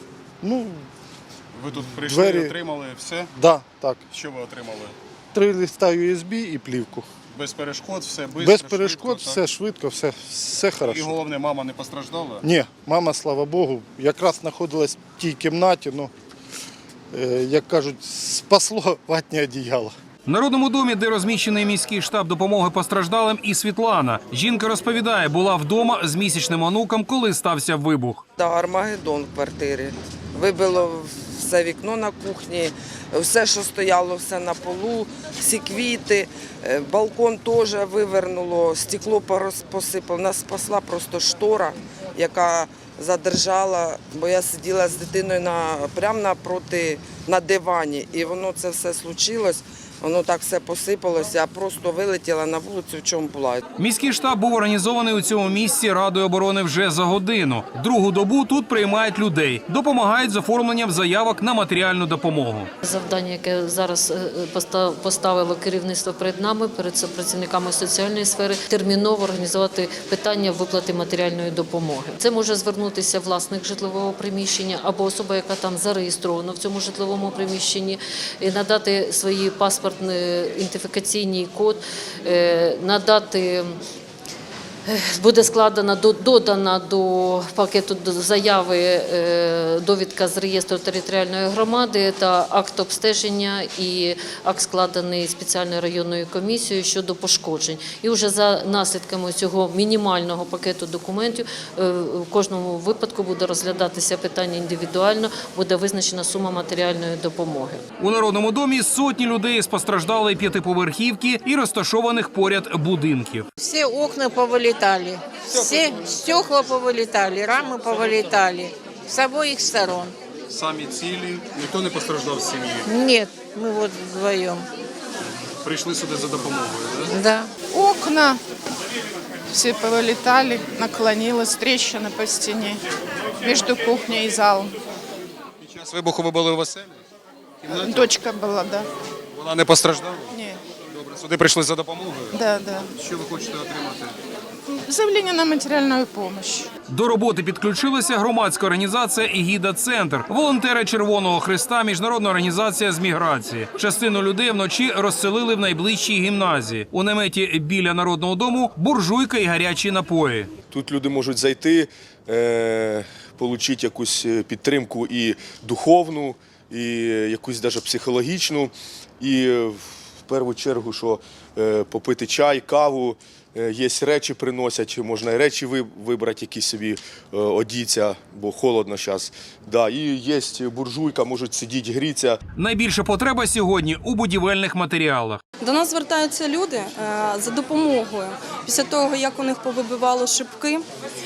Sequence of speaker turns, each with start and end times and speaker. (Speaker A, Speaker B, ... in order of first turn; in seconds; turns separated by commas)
Speaker A: 0.4-0.9, Speaker B: 1.6-3.3, Speaker A: 2.0-2.5, Speaker A: 3.3-4.0, Speaker B: 4.1-5.0, Speaker A: 5.3-7.1, Speaker B: 7.3-9.4, Speaker A: 8.4-11.2, Speaker B: 10.9-12.4, Speaker A: 12.4-16.1, Speaker A: 17.1-19.9, Speaker C: 20.3-28.2, Speaker D: 28.4-53.6, Speaker C: 53.8-62.7, Speaker E: 62.8-83.8, Speaker E: 84.9-107.8, Speaker C: 108.0-113.5, Speaker F: 113.6-120.2, Speaker B: 120.5-122.9, Speaker F: 122.8-124.7, Speaker B: 125.6-127.1, Speaker F: 127.0-127.5, Speaker G: 127.7-128.4, Speaker G: 129.5-132.8, Speaker G: 133.4-134.7, Speaker B: 135.6-137.0, Speaker B: 137.6-138.1, Speaker G: 137.7-138.9, Speaker B: 139.3-140.3, Speaker G: 140.3-140.6, Speaker B: 140.9-142.4, Speaker G: 142.3-142.9, Speaker B: 143.0-144.2, Speaker G: 144.8-146.7, Speaker C: 146.9-160.5, Speaker H: 160.7-182.4, Speaker C: 182.6-185.4, Speaker I: 185.6-190.9